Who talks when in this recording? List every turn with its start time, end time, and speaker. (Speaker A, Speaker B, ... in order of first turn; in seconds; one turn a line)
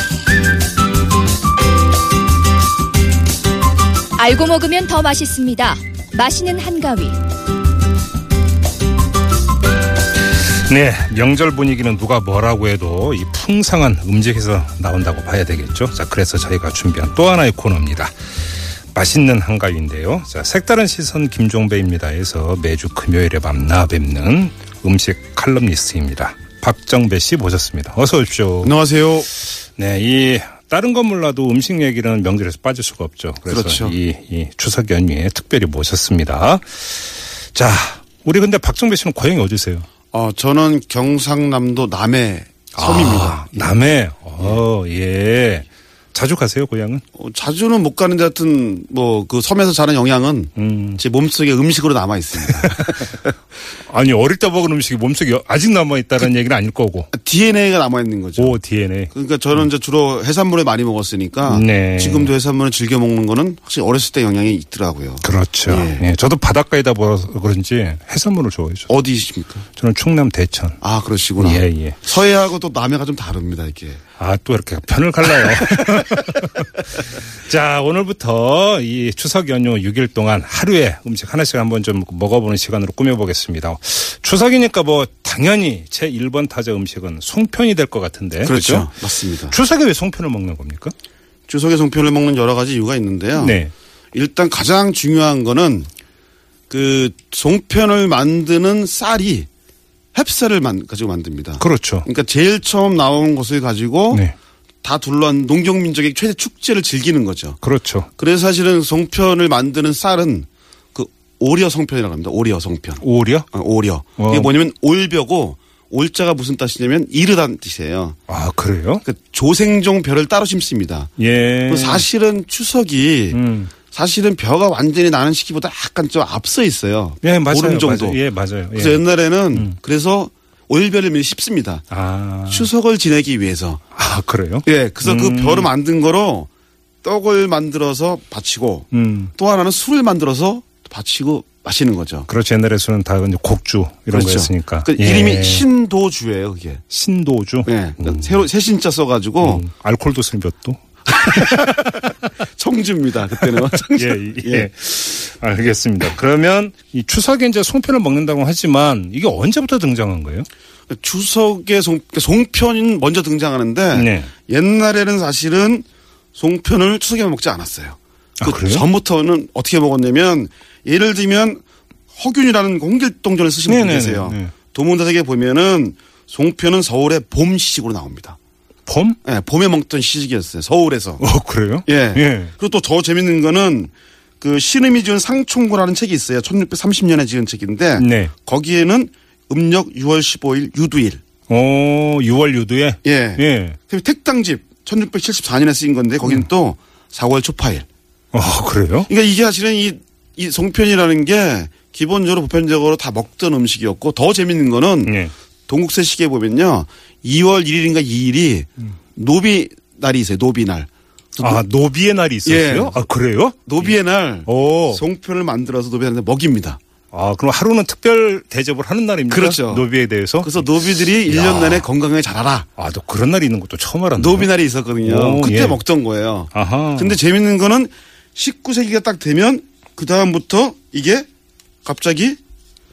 Speaker A: 4.2-7.2
Speaker B: 10.7-18.1
Speaker B: 18.9-28.7
Speaker C: 28.6-29.3
Speaker B: 29.8-39.9
Speaker C: 33.5-34.0
Speaker C: 40.1-43.8
Speaker B: 42.8-47.0
Speaker C: 47.1-53.3
Speaker B: 50.5-51.0
Speaker B: 52.5-53.0
Speaker B: 53.9-57.1
Speaker C: 57.1-58.6
Speaker B: 58.4-59.1
Speaker C: 59.1-66.0
Speaker B: 61.4-62.3
Speaker B: 65.2-68.9
Speaker C: 68.9-69.6
Speaker B: 69.8-70.8
Speaker C: 70.8-74.0
Speaker B: 71.4-72.0
Speaker B: 74.2-90.9
Speaker C: 88.4-89.5
Speaker C: 91.5-93.6
Speaker B: 93.4-93.7
Speaker C: 94.1-95.9
Speaker C: 96.7-99.5
Speaker C: 100.1-104.3
Speaker B: 101.6-102.0
Speaker C: 104.8-107.6
Speaker B: 107.6-108.1
Speaker C: 108.2-118.2
Speaker B: 113.0-113.5
Speaker B: 114.2-114.5
Speaker B: 118.3-119.0
Speaker C: 119.0-121.1
Speaker B: 121.2-122.0
Speaker C: 121.7-128.2
Speaker B: 123.3-123.7
Speaker B: 127.2-129.0
Speaker C: 128.7-131.8
Speaker B: 131.9-132.7
Speaker C: 132.5-133.8
Speaker B: 133.9-135.7
Speaker C: 134.6-136.5
Speaker C: 137.0-142.3
Speaker B: 138.9-139.3
Speaker B: 142.3-145.7
Speaker C: 144.1-146.8
Speaker B: 146.9-148.4
Speaker C: 147.6-149.6
Speaker B: 149.4-152.1
Speaker C: 151.1-151.9
Speaker C: 152.5-154.7
Speaker B: 153.4-160.5
Speaker C: 160.9-171.6
Speaker B: 163.9-164.3
Speaker B: 168.4-168.8
Speaker C: 172.1-178.4
Speaker B: 173.7-174.5
Speaker B: 178.8-179.2
Speaker C: 179.2-181.2
Speaker B: 181.2-182.5
Speaker C: 181.8-191.2
Speaker B: 188.0-188.3
Speaker B: 191.5-193.8
Speaker C: 193.0-197.8
Speaker B: 198.3-199.1
Speaker C: 199.1-211.6
Speaker B: 205.0-205.3
Speaker B: 211.4-213.9
Speaker C: 212.4-213.0
Speaker C: 213.6-216.8
Speaker B: 214.4-215.0
Speaker B: 217.1-221.8
Speaker C: 219.3-219.9
Speaker C: 220.4-222.7
Speaker B: 222.8-224.5
Speaker C: 224.2-231.3
Speaker B: 225.0-225.8
Speaker B: 226.5-227.2
Speaker C: 231.8-232.4